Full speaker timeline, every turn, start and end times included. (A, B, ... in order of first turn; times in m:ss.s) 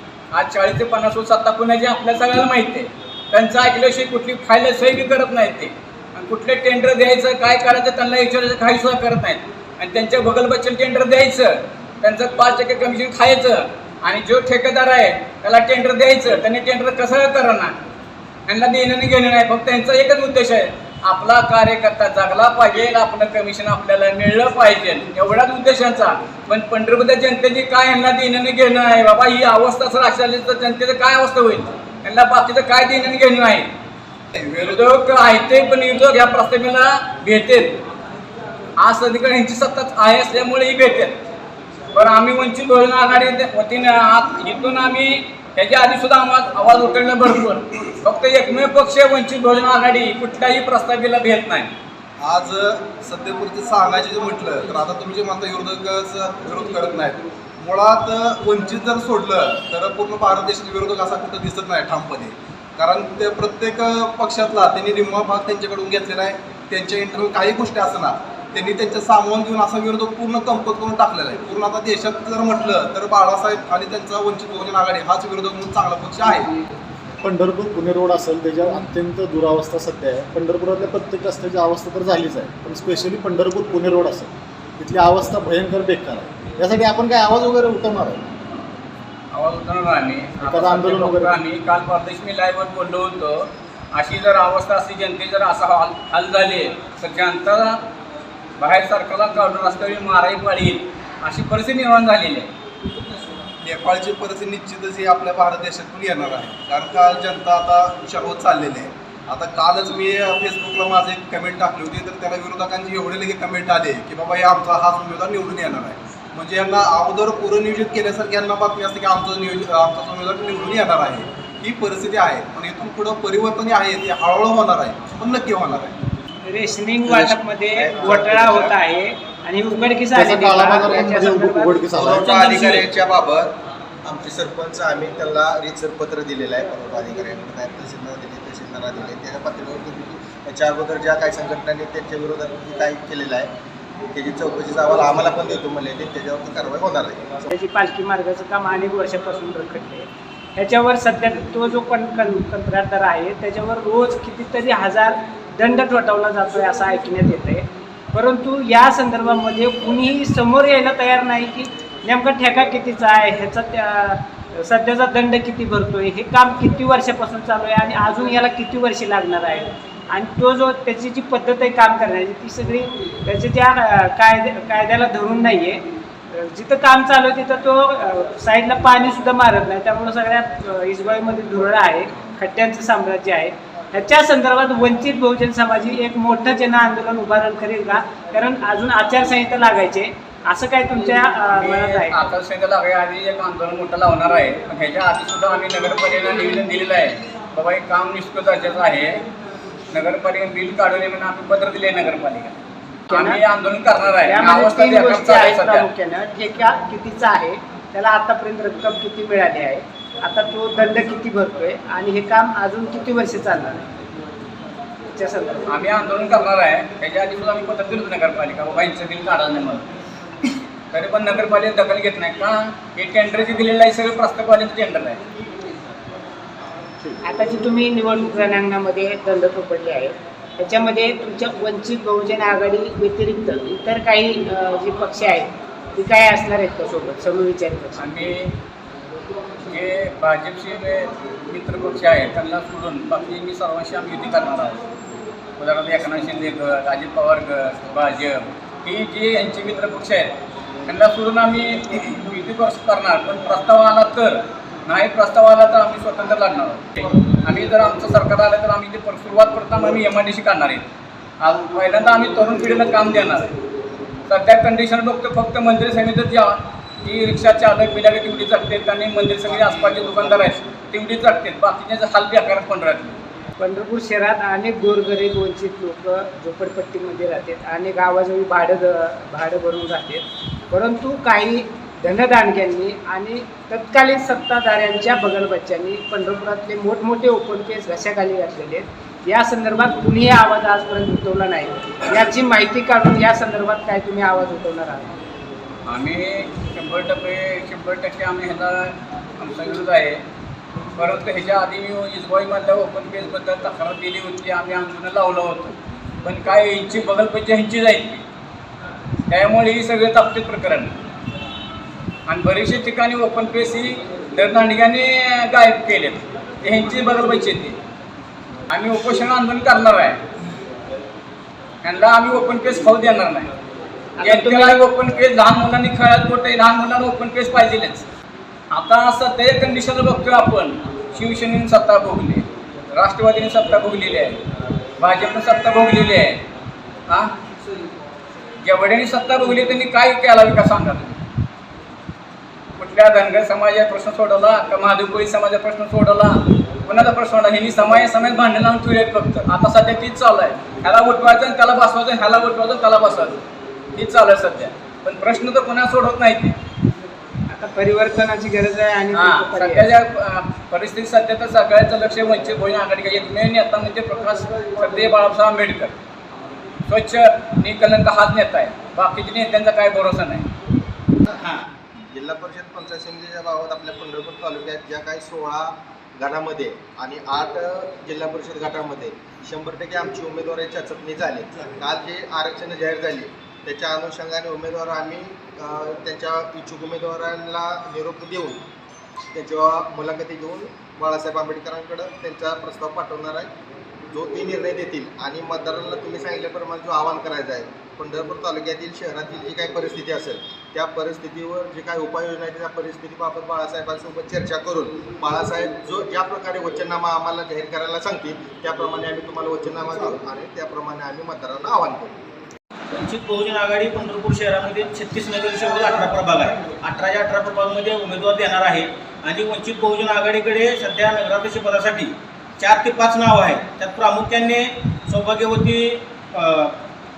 0:00.3-0:17.8 A
0:18.5-0:33.7 A
0:34.4-0:34.8 B
0:34.5-0:37.8 A
0:38.8-0:41.2 A
0:41.9-0:51.7 A
0:52.2-1:16.5 B
1:17.2-1:28.2 C
1:29.3-1:37.8 A
1:30.4-1:31.4 C
1:38.6-1:42.5 A
1:43.6-2:05.9 B
2:06.5-2:11.9 D
2:07.0-2:08.8 E
2:10.2-2:12.3 C
2:11.9-2:23.5 E
2:24.1-2:27.5 E
2:27.5-3:12.2 D
3:11.5-3:19.2 A
3:19.9-3:22.6 A
3:23.1-3:23.4 D
3:23.1-3:25.9 A
3:24.2-3:33.8 D
3:35.1-3:35.7 D
3:35.7-3:39.8 A
3:40.9-3:45.2 A
3:47.3-3:58.0 D
3:58.0-3:58.6 A
3:59.7-4:04.8 A
4:05.6-4:10.3 A
4:10.9-4:20.9 A
4:21.4-4:23.5 A
4:24.3-4:33.2 A
4:33.6-4:55.1 D
4:55.9-5:00.2 A
5:01.0-5:08.2 A
5:09.3-5:10.9 A
5:12.3-5:17.8 A
5:18.7-5:20.2 A
5:21.8-5:23.5 A
5:24.2-5:24.8 D
5:24.2-5:28.1 A
5:28.7-5:34.4 A
5:35.0-5:36.4 A
5:37.1-5:37.3 A
5:38.6-5:41.2 A
5:42.8-5:53.4 A
5:53.9-5:56.6 A
5:57.5-5:59.9 D
5:59.1-6:06.0 A
6:06.9-6:10.5 A
6:12.1-6:28.6 E
6:29.3-6:33.5 E
6:34.1-6:52.2 E
6:52.9-7:06.8 F